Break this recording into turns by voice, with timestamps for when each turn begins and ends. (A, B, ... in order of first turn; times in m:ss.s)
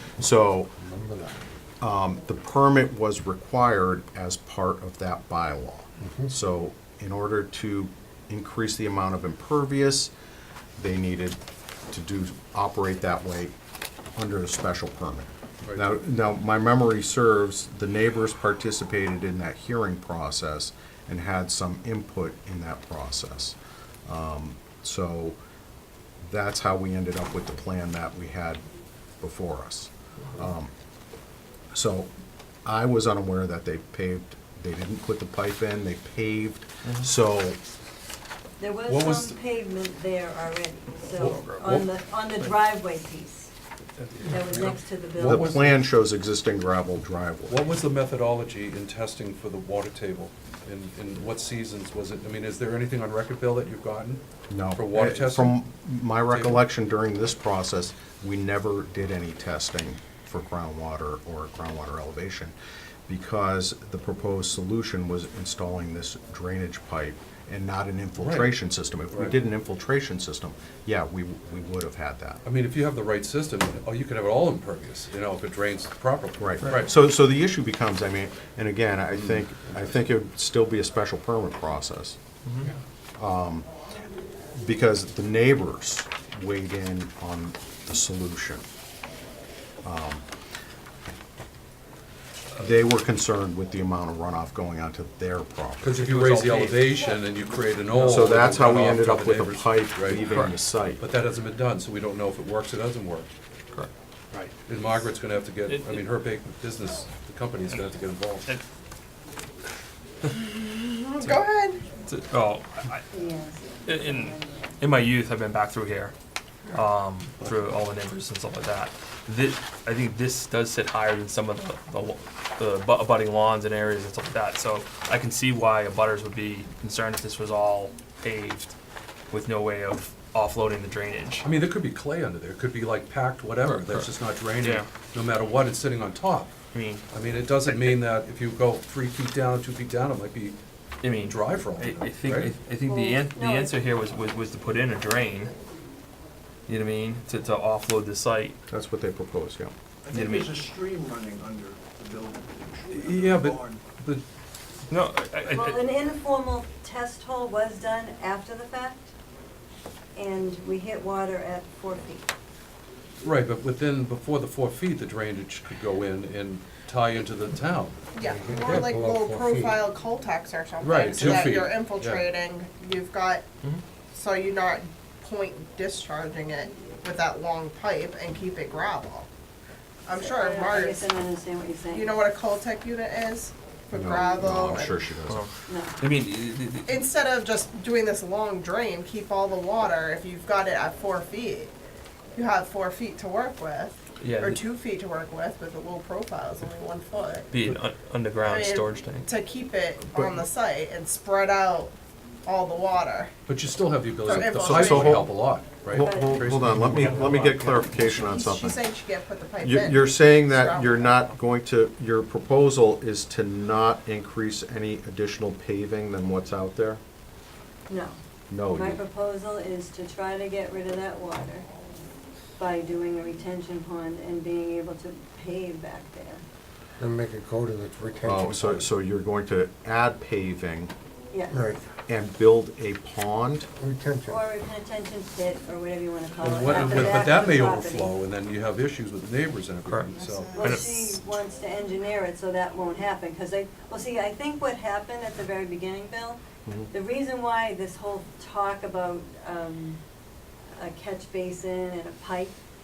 0:00.2-0:00.7 A
0:00.8-0:01.4 B
0:01.8-0:10.1 A
0:06.0-0:06.3 B
0:10.8-0:11.4 A
0:11.9-0:13.5 A
0:14.2-0:25.4 A
0:15.7-0:16.0 C
0:26.2-0:28.6 A
0:29.2-0:30.7 A
0:31.7-0:32.1 A
0:32.6-0:37.6 A
0:38.6-0:43.5 D
0:38.9-0:39.4 C
0:41.2-0:41.8 C
0:44.0-0:44.8 E
0:44.2-0:45.6 D
0:45.2-0:47.7 A
0:45.2-0:45.8 C
0:47.5-0:54.2 C
0:54.5-1:02.5 A
0:54.7-0:55.6 C
0:56.3-0:56.6 C
1:03.1-1:12.4 A
1:08.2-1:08.6 C
1:09.1-1:09.4 C
1:12.4-1:16.9 C
1:16.4-1:22.2 A
1:19.2-1:19.8 C
1:23.2-1:23.7 A
1:24.5-1:28.6 A
1:29.8-1:30.2 A
1:32.6-1:36.0 A
1:35.8-1:40.2 C
1:35.9-1:37.0 E
1:38.0-1:38.3 E
1:38.0-1:41.0 A
1:40.2-1:40.6 E
1:41.0-1:43.3 C
1:43.7-1:44.5 E
1:44.6-1:48.5 C
1:45.7-1:46.1 E
1:50.3-1:51.8 F
1:52.1-1:53.0 E
1:53.1-1:54.8 D
1:53.9-1:56.1 E
1:56.7-2:08.7 E
2:09.3-2:11.5 E
2:11.4-2:16.5 C
2:13.6-2:14.9 E
2:16.7-2:17.0 E
2:17.1-2:20.6 C
2:17.7-2:18.0 E
2:21.0-2:25.5 E
2:21.2-2:22.5 C
2:22.8-2:23.8 D
2:26.7-2:28.6 E
2:28.7-2:29.7 A
2:30.0-2:33.8 G
2:30.1-2:30.5 E
2:32.9-2:34.2 C
2:34.9-2:35.8 E
2:35.5-2:39.1 D
2:40.2-2:42.3 D
2:43.2-2:48.9 C
2:48.1-2:53.4 F
2:48.2-2:49.8 B
2:50.8-2:52.2 C
2:54.1-2:59.3 F
3:00.0-3:01.0 F
3:00.2-3:02.2 D
3:01.9-3:05.0 F
3:03.9-3:05.4 A
3:05.3-3:06.9 E
3:05.7-3:06.0 D
3:06.8-3:11.7 F
3:12.3-3:17.5 F
3:14.2-3:14.6 E
3:17.5-3:19.3 E
3:18.4-3:21.9 F
3:20.1-3:20.4 A
3:22.4-3:23.3 F
3:23.5-3:27.5 C
3:24.3-3:25.3 F
3:24.3-3:25.3 A
3:25.9-3:28.8 A
3:26.0-3:26.6 D
3:26.8-3:27.4 E
3:27.9-3:31.2 F
3:29.6-3:37.0 A
3:37.9-3:41.7 D
3:38.5-3:39.0 A
3:42.6-3:46.4 D
3:47.0-3:48.9 B
3:48.2-3:50.9 A
3:51.3-3:51.7 D
3:51.5-3:51.8 B
3:52.1-3:53.7 A
3:53.8-3:54.4 B
3:54.3-3:58.1 D
3:56.4-4:00.7 C
3:59.9-4:01.2 E
4:00.6-4:10.0 D
4:10.7-4:12.6 D